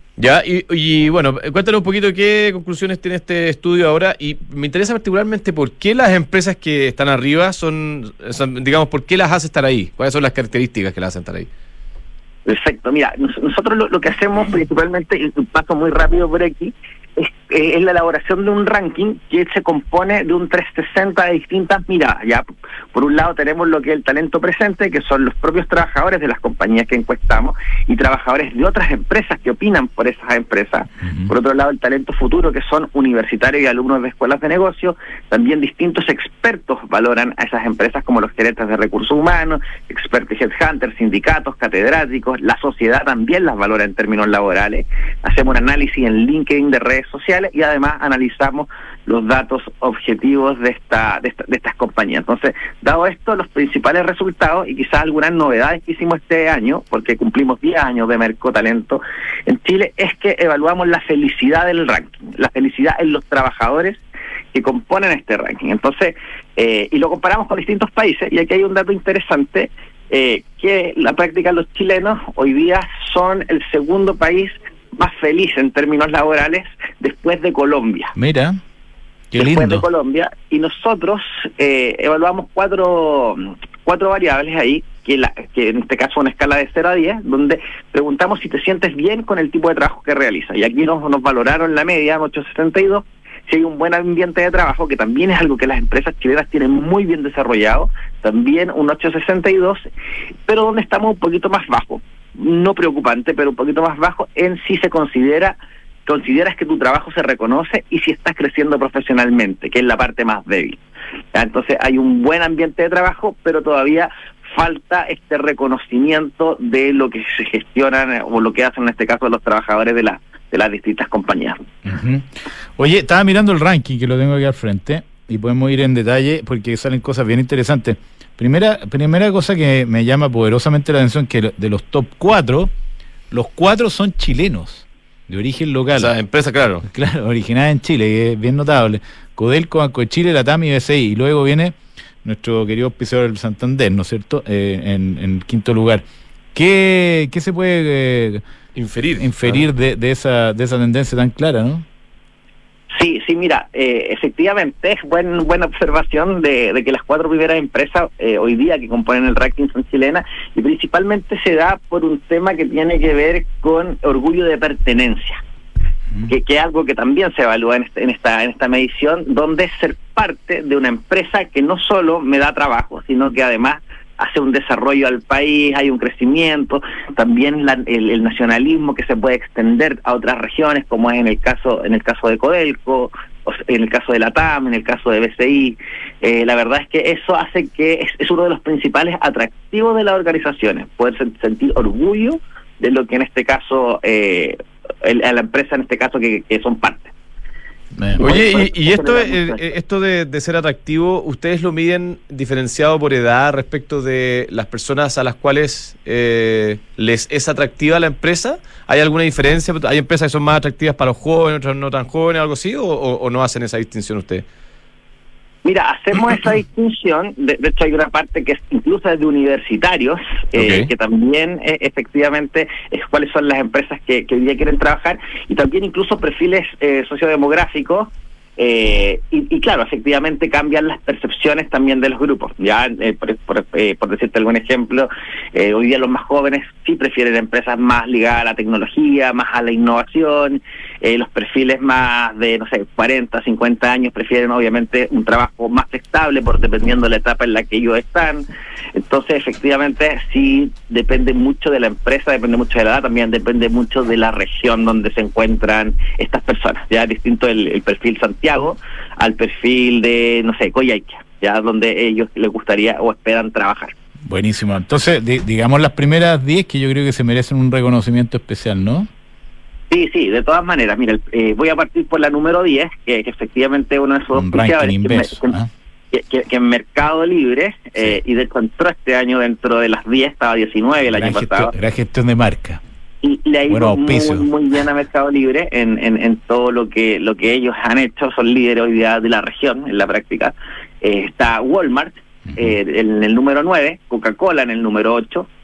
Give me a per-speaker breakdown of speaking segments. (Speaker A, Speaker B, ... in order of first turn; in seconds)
Speaker A: 0.2-11.5, 135.9-136.9, 148.7-149.7, 198.2-214.4, 220.5-220.9
Speaker B: 12.4-64.0, 64.5-78.1, 79.4-99.8, 100.5-110.8, 111.3-121.6, 152.9-165.4, 166.3-197.1, 198.2-199.6, 215.6-263.9, 269.9-275.5, 276.1-281.7, 283.2-295.5
Speaker C: 31.1-31.3, 78.2-78.6, 79.3-79.8, 121.8-132.7, 133.3-136.1, 136.8-148.4, 149.2-151.8, 264.2-269.1, 274.3-275.7, 281.1-282.8, 283.7-284.5